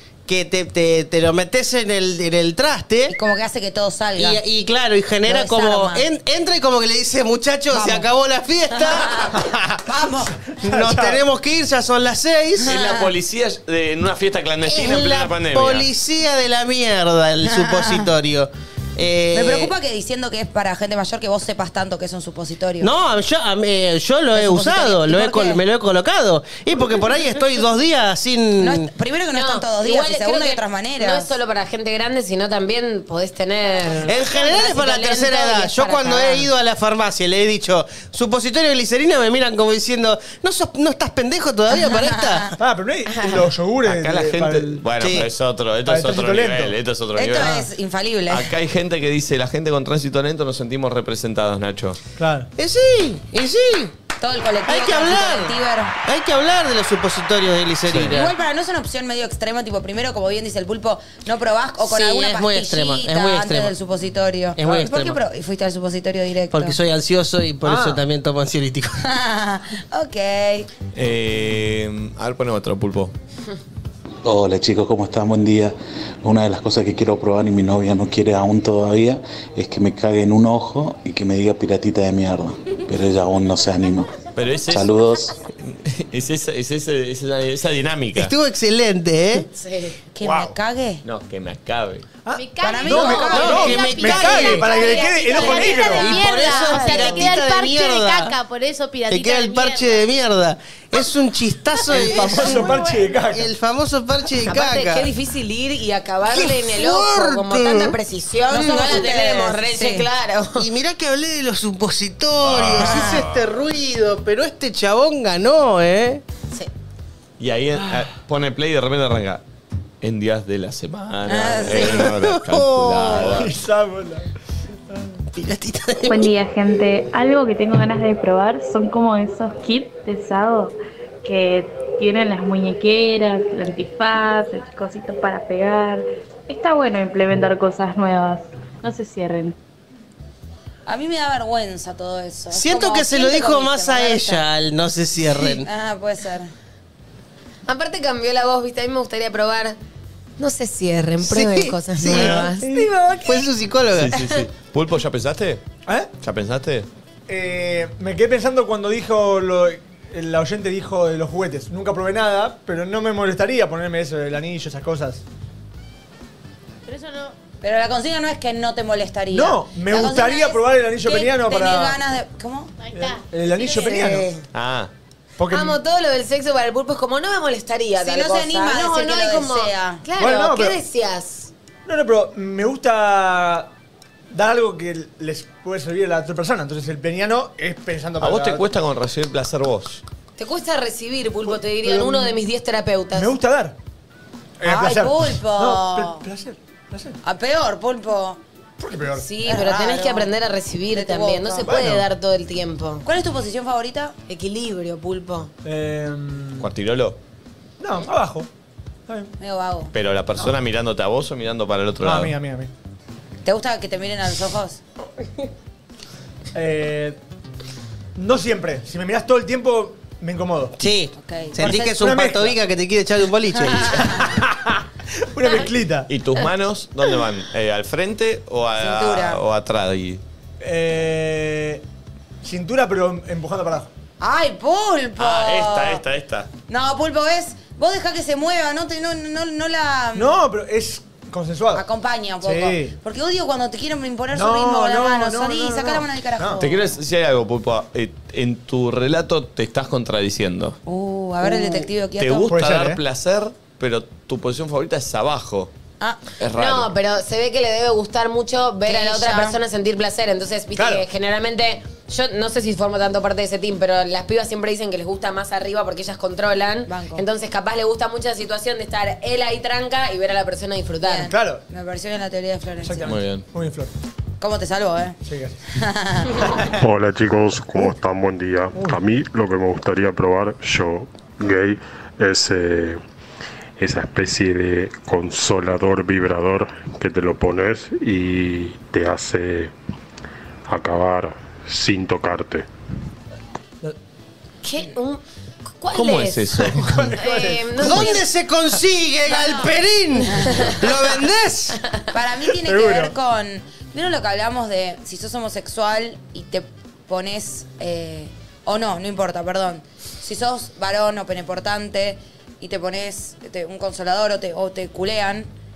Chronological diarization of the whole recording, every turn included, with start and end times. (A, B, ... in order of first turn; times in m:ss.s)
0:00.3-0:03.1 A
0:03.1-0:04.4 B
0:04.2-0:09.4 A
0:05.2-0:06.0 B
0:07.7-0:08.0 B
0:08.7-0:10.3 B
0:09.4-0:09.7 C
0:10.6-0:11.2 C
0:10.6-0:12.8 A
0:12.6-0:13.1 B
0:12.6-0:15.9 D
0:14.6-0:19.7 A
0:17.5-0:18.1 B
0:19.3-0:22.9 B
0:22.8-0:28.9 A
0:24.3-0:25.6 B
0:28.6-0:31.3 B
0:29.3-0:36.5 E
0:34.0-0:42.5 A
0:41.7-0:42.4 B
0:42.6-0:44.8 C
0:43.1-0:43.4 E
0:43.8-0:47.6 D
0:45.0-0:45.3 A
0:45.8-0:46.8 C
0:47.2-0:48.5 B
0:47.4-0:47.6 C
0:48.3-0:52.0 D
0:52.2-0:52.5 C
0:52.6-0:53.9 A
0:54.2-0:55.9 B
0:54.7-0:58.3 A
0:57.9-0:58.2 D
0:58.1-1:06.8 B
1:01.8-1:03.7 A
1:04.6-1:05.2 A
1:06.5-1:09.0 A
1:07.6-1:08.0 C
1:09.0-1:10.7 B
1:10.9-1:13.1 D
1:14.2-1:24.1 F
1:24.3-1:25.0 D
1:24.6-1:25.3 F
1:25.6-1:28.3 D
1:28.1-1:29.5 A
1:29.6-1:30.0 E
1:30.1-1:31.0 B
1:30.2-1:30.5 C
1:31.0-1:32.1 D
1:32.2-1:36.2 C
1:32.3-1:40.0 G
1:32.6-1:33.6 B
1:33.2-1:38.3 A
1:36.2-1:37.3 E
1:39.1-1:45.1 A
1:41.9-1:43.5 C
1:42.0-1:43.2 G
1:44.4-1:50.7 E
1:46.2-1:48.0 A
1:48.5-1:50.0 B
1:50.6-1:56.2 A
1:52.5-1:53.1 D
1:52.8-1:53.2 B
1:57.4-1:59.4 D
2:00.0-2:03.5 D
2:01.3-2:02.1 B
2:01.7-2:03.4 A
2:03.3-2:04.3 C
2:05.3-2:06.3 A
2:06.1-2:19.5 H
2:20.9-2:24.4 B
2:22.5-2:25.7 A
2:25.4-2:26.5 B
2:27.7-2:29.8 E
2:30.4-2:33.5 E
2:31.2-2:32.5 A
2:32.0-2:32.9 C
2:33.2-2:34.3 A
2:33.9-2:35.6 D
2:36.2-2:36.9 D
2:37.3-2:45.2 C
2:46.8-2:47.3 G
2:47.6-2:52.7 B
2:49.3-2:52.0 C
2:52.8-2:54.0 G
2:52.9-2:54.3 C
2:53.9-2:54.4 B
2:54.5-2:54.9 D
2:55.4-2:55.8 C
2:55.5-3:01.5 E
2:58.0-3:00.0 B
3:00.2-3:00.8 C
3:01.8-3:03.7 C
3:04.3-3:08.7 C
3:08.2-3:10.0 D
3:10.4-3:13.3 E
3:11.5-3:12.4 C
3:13.1-3:13.7 C
3:14.6-3:17.2 C
3:14.6-3:16.2 B
3:17.2-3:18.4 B
3:18.8-3:19.3 C
3:19.2-3:23.0 E
3:19.4-3:20.3 B
3:20.9-3:21.7 B
3:21.6-3:22.0 C
3:23.0-3:24.1 B
3:24.3-3:25.5 E
3:25.6-3:26.7 C
3:26.6-3:27.2 D
3:27.8-3:28.5 C
3:29.4-3:29.9 B
3:29.9-3:32.3 D
3:32.0-3:32.7 C
3:33.4-3:34.8 B
3:36.5-3:37.2 C
3:38.2-3:40.8 C
3:40.8-3:44.1 A
3:41.2-3:42.0 B
3:41.6-3:42.6 C
3:43.7-3:46.1 C
3:43.9-3:44.2 B
3:46.1-3:50.2 D
3:48.8-3:49.4 B
3:50.6-3:51.8 C
3:52.4-3:53.9 C
3:54.2-3:56.0 B
3:55.2-3:56.5 D
3:56.7-4:00.3 B
4:00.1-4:01.8 C
4:01.7-4:06.8 B
4:02.4-4:02.9 C
4:04.3-4:06.6 C
4:06.6-4:10.8 D
4:10.8-4:12.6 B
4:12.2-4:15.7 D
4:12.5-4:13.0 C
4:16.4-4:16.9 D
4:16.6-4:31.3 E
4:18.8-4:19.6 B
4:20.8-4:21.0 C
4:26.9-4:27.2 B
4:31.0-4:33.1 B
4:31.2-4:31.6 C
4:32.8-4:33.9 C
4:33.0-4:33.5 D
4:34.4-4:35.2 B
4:35.2-4:35.6 C
4:35.7-4:36.5 B
4:36.4-4:36.7 C
4:36.8-4:43.0 I
4:38.7-4:39.0 C
4:43.8-4:49.7 I
4:50.7-4:52.6 I
4:54.6-4:55.2 E
4:55.8-4:58.2 E
4:55.9-4:57.1 D
4:56.8-4:58.0 C
4:57.8-5:01.8 A
5:02.1-5:15.5 B
5:02.6-5:03.1 C